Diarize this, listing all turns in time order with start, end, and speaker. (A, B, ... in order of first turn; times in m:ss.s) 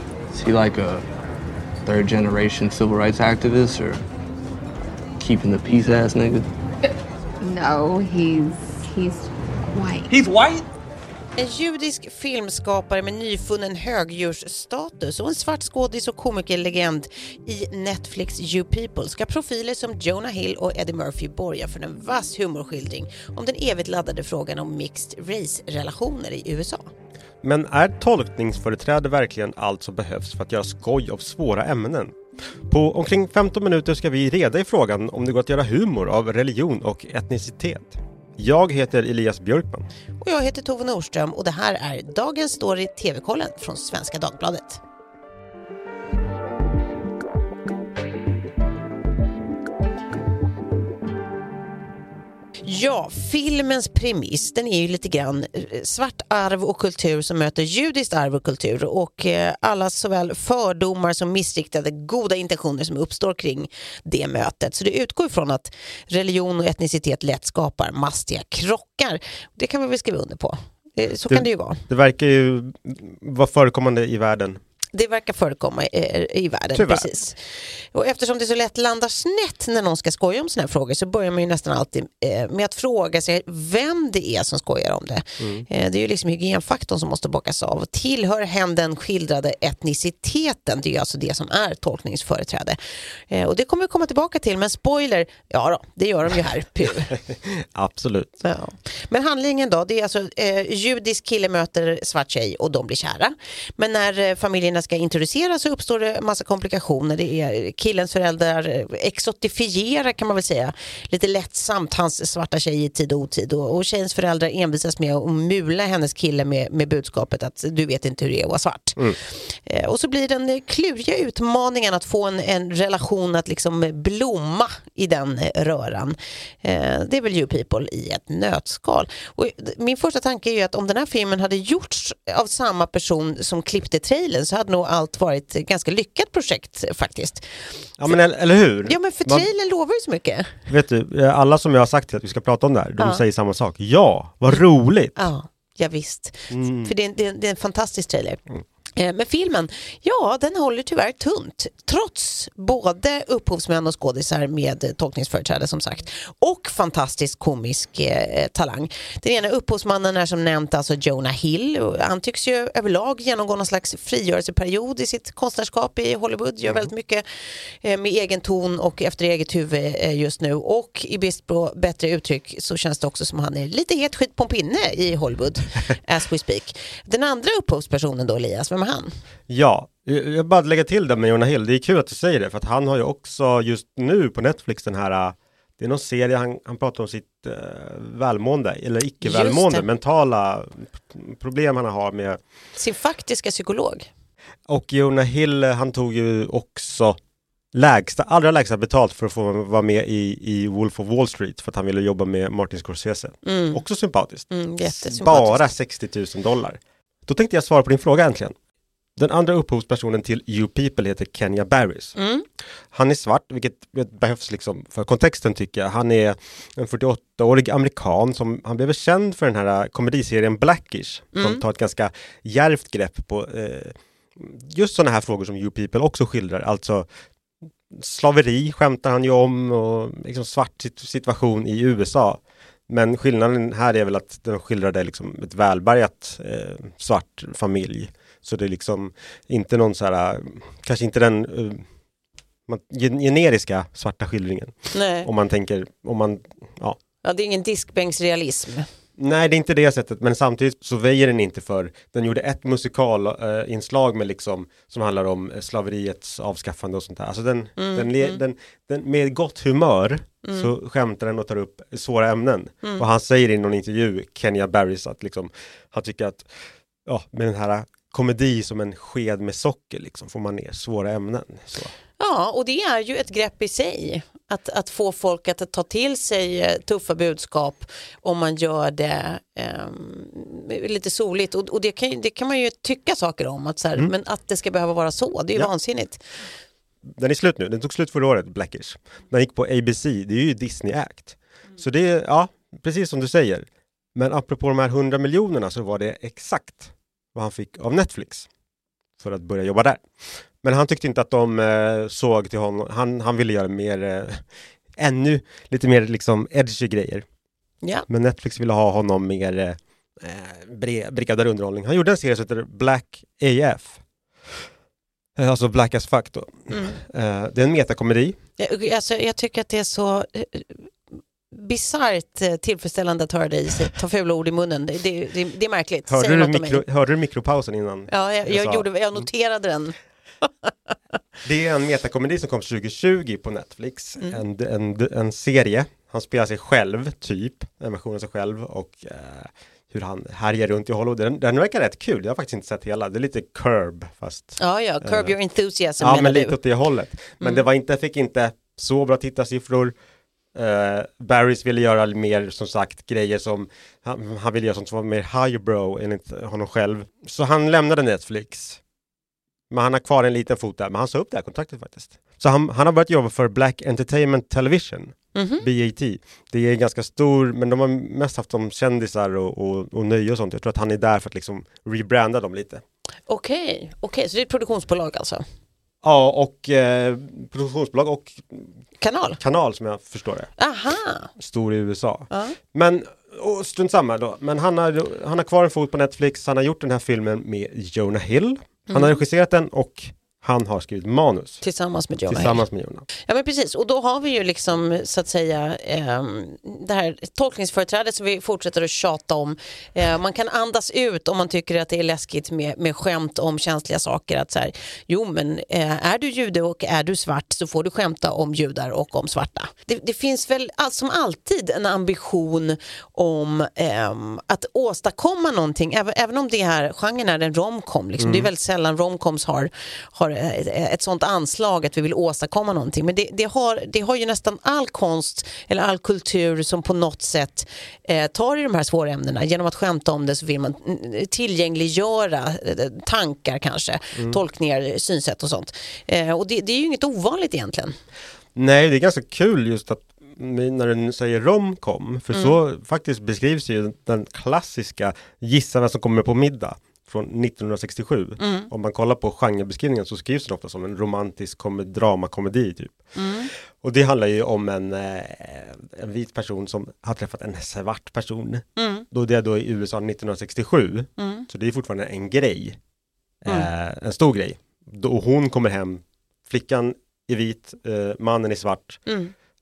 0:00.3-0:01.0 A
0:01.8-0:04.0 A
0:05.2-0:06.5 A
0:07.5-0:09.2 B
0:09.8-0:10.1 B
0:11.4-0:26.9 C
0:27.4-0:32.2 D
0:32.7-0:39.9 D
0:40.2-0:44.8 C
0:52.6-1:11.8 C
1:11.3-1:14.6 D
1:14.9-1:17.4 C
1:16.8-1:17.1 D
1:17.9-1:32.8 C
1:25.4-1:25.6 D
1:33.3-1:37.2 C
1:37.8-1:38.3 D
1:38.4-2:17.4 C
2:18.0-2:19.5 D
2:18.8-2:20.6 C
2:20.7-2:25.2 D
2:23.0-2:23.2 C
2:25.2-2:28.4 C
2:26.5-2:26.9 D
2:29.0-2:47.2 C
2:47.8-2:59.1 C
2:59.5-3:12.4 D
3:09.2-3:09.9 C
3:12.8-3:14.1 C
3:14.7-3:17.2 D
3:17.7-3:28.5 D
3:23.4-3:23.8 C
3:24.5-3:25.7 C
3:29.2-3:32.2 D
3:32.2-3:32.4 C
3:32.9-3:47.1 D
3:41.4-3:41.6 C
3:47.9-4:01.8 D
4:02.7-4:07.0 D
4:04.9-4:05.3 C
4:07.2-4:08.9 C
4:09.2-4:26.5 D
4:17.8-4:18.4 C
4:20.4-4:20.7 C
4:27.1-4:31.9 D
4:32.2-4:46.2 C
4:47.1-4:58.5 D
4:59.2-5:00.0 D
5:00.6-5:07.2 D
5:07.8-5:08.1 C
5:08.1-5:14.0 D
5:15.4-5:18.4 D
5:16.7-5:17.0 C
5:18.6-5:20.8 C
5:21.5-5:26.8 C
5:26.1-5:29.2 D
5:28.1-5:30.5 C
5:31.4-5:45.4 D
5:44.6-5:46.6 C
5:46.0-5:50.0 D
5:50.5-5:58.8 D
5:59.7-6:12.8 D
6:05.4-6:05.6 C
6:13.3-6:15.4 C
6:16.0-6:18.7 D
6:19.0-6:19.4 C
6:19.4-6:20.5 D
6:20.6-6:21.3 C
6:21.4-6:31.6 D
6:22.3-6:22.6 C
6:28.9-6:29.2 C
6:31.6-6:32.6 C
6:32.3-6:33.1 D
6:33.2-7:17.9 C
6:58.2-6:58.5 D
7:18.6-7:33.1 D
7:28.4-7:28.7 C
7:33.2-7:33.5 C
7:33.8-7:42.8 D
7:38.8-7:39.1 C
7:41.2-7:41.5 C
7:43.4-7:49.0 D
7:49.1-7:49.3 C